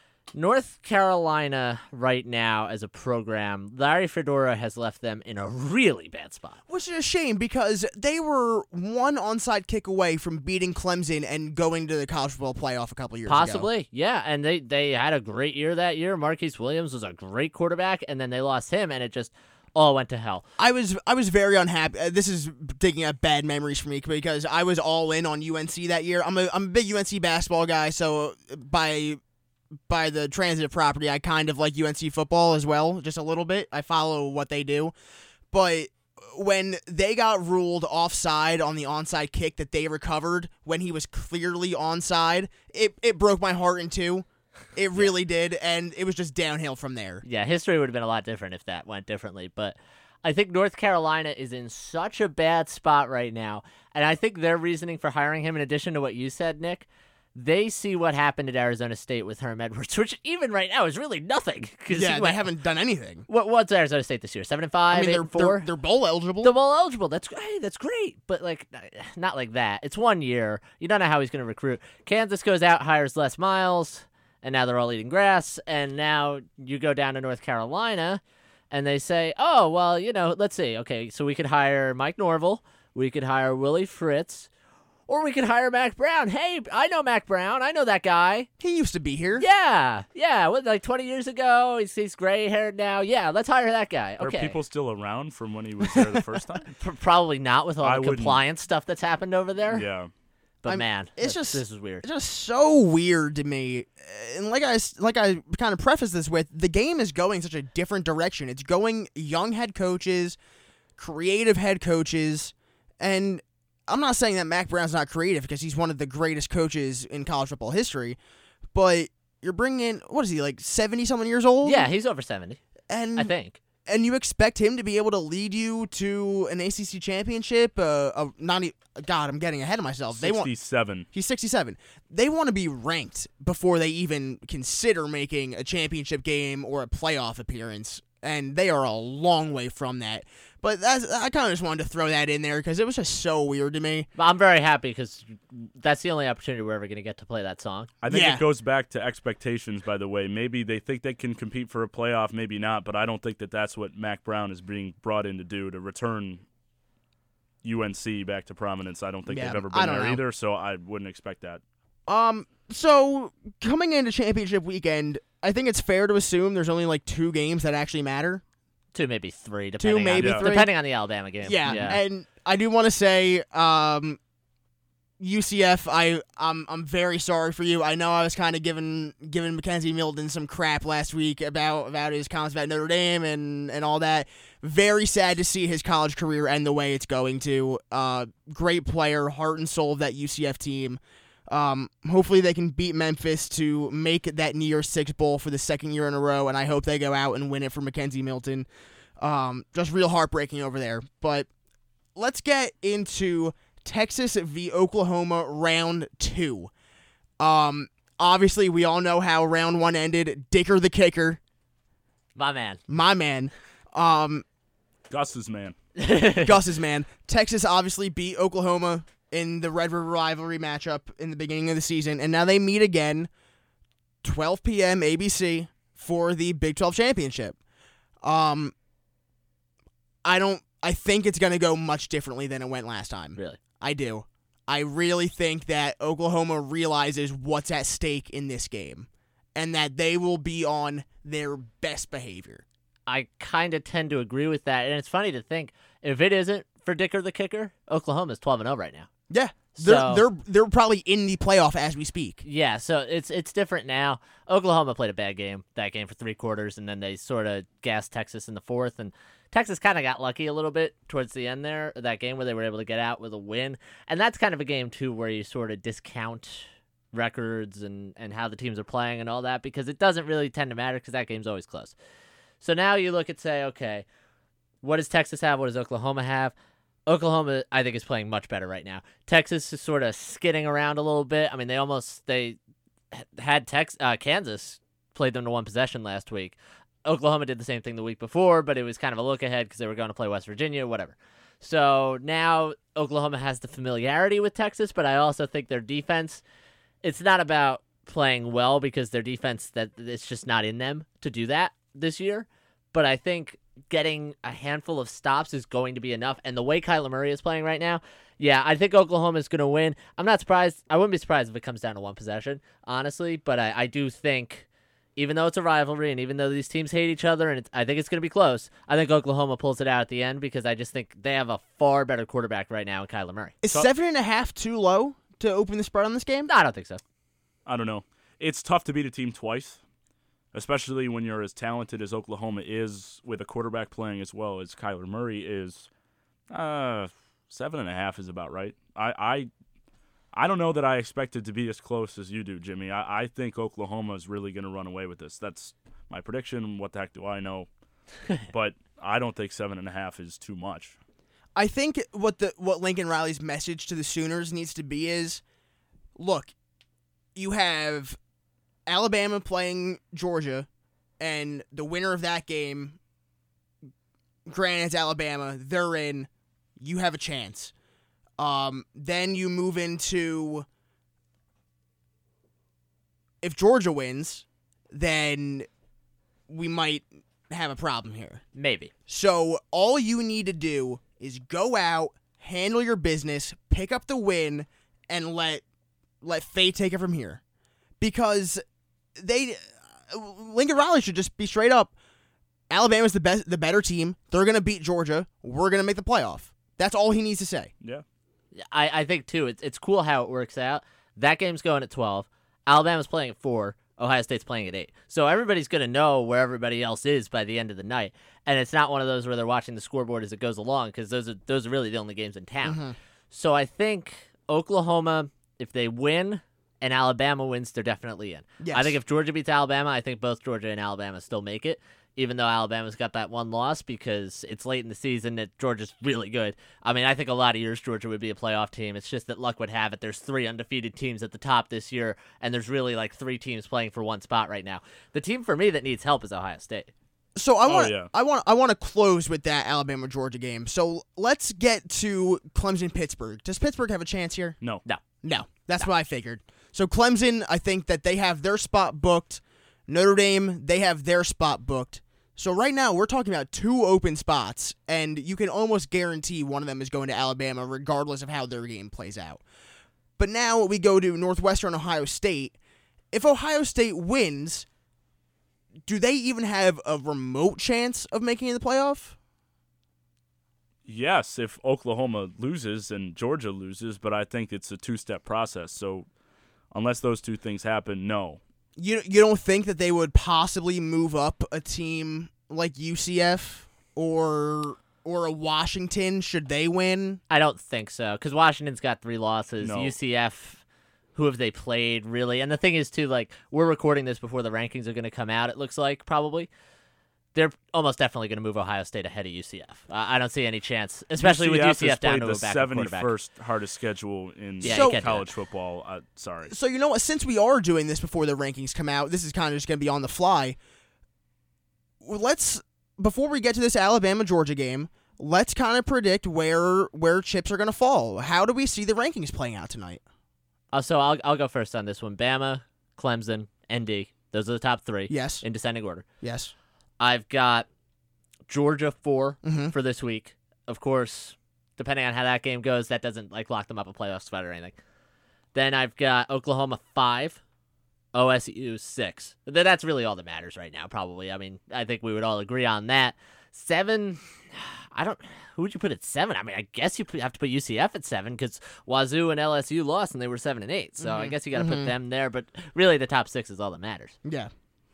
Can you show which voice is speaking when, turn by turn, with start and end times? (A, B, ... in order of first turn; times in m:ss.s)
0:00.3-0:06.6 A
0:06.7-0:13.7 B
0:13.3-0:20.4 A
0:20.6-0:29.2 B
0:29.9-0:34.9 B
0:35.5-0:47.2 B
0:47.2-1:02.5 A
1:01.9-1:03.2 B
1:03.3-1:05.7 A
1:04.9-1:06.5 B
1:06.4-1:24.5 A
1:25.1-1:28.5 A
1:28.6-1:29.4 B
1:29.4-1:34.6 A
1:34.2-1:36.7 C
1:36.7-1:39.8 A
1:37.8-1:38.4 C
1:39.7-1:40.1 C
1:40.6-1:42.0 A
1:40.6-1:50.4 B
1:51.0-1:58.2 B
1:58.7-2:01.9 B
2:01.6-2:02.6 A
2:02.9-2:03.3 B
2:03.2-2:03.6 A
2:03.8-2:10.5 B
2:10.1-2:11.0 C
2:11.1-2:24.1 B
2:24.2-2:27.9 A
2:28.0-2:36.4 C
2:28.1-2:28.4 B
2:37.6-2:41.6 C
2:39.3-2:40.2 B
2:42.1-2:48.4 B
2:48.9-2:52.0 A
2:49.8-2:50.7 B
2:50.1-2:50.4 C
2:51.4-2:54.2 B
2:51.6-2:51.9 C
2:55.2-3:18.7 B
3:19.2-3:21.5 B
3:22.2-3:26.7 B
3:27.4-3:31.4 B
3:32.4-3:32.8 A
3:32.9-3:34.4 B
3:35.1-3:35.7 C
3:36.0-3:36.5 A
3:36.4-3:43.3 B
3:44.2-3:47.6 B
3:48.2-3:48.7 B
3:50.2-4:02.6 B
4:03.1-4:09.1 A
4:09.3-4:12.4 B
4:09.7-4:10.2 A
4:12.4-4:32.0 A
4:32.6-4:34.0 A
4:34.8-4:36.5 A
4:37.1-4:42.6 A
4:43.1-4:56.4 A
4:57.0-5:23.6 A
5:23.6-5:26.5 B
5:26.5-5:27.0 A
5:27.6-5:29.8 C
5:30.5-5:35.9 C
5:36.5-5:39.5 C
5:40.3-5:47.7 C
5:48.4-5:50.9 C
5:51.6-5:55.4 B
5:56.2-5:56.5 B
5:57.3-5:58.2 B
5:58.9-6:00.7 B
6:01.2-6:03.0 B
6:04.5-6:07.7 B
6:08.4-6:10.6 B
6:13.4-6:15.7 B
6:16.5-6:18.4 B
6:18.5-6:18.9 A
6:19.1-6:25.6 B
6:26.2-6:27.4 B
6:28.0-6:28.6 B
6:29.2-6:31.9 B
6:32.7-6:37.7 B
6:38.5-7:16.9 A
6:52.6-6:53.0 B
6:58.6-6:59.0 B
7:17.4-7:24.6 B
7:17.7-7:18.1 C
7:25.2-7:39.4 B
7:40.2-7:42.5 B
7:43.1-7:44.6 B
7:45.8-7:49.2 B
7:50.8-7:56.1 C
7:56.7-7:58.4 C
7:58.8-8:07.2 B
8:07.3-8:10.6 A
8:09.6-8:09.9 C
8:11.2-8:16.5 A
8:17.3-8:23.1 A
8:21.2-8:26.5 C
8:24.6-8:25.3 A
8:24.6-8:25.0 B
8:26.5-8:30.6 B
8:32.0-8:40.0 B
8:40.7-8:46.0 A
8:45.1-8:45.4 B
8:46.2-8:46.5 B
8:47.0-8:47.7 A
8:48.5-8:54.8 A
8:49.4-8:49.7 B
8:55.5-8:57.4 A
8:58.1-9:14.2 A
9:11.0-9:11.9 B
9:14.2-9:14.5 B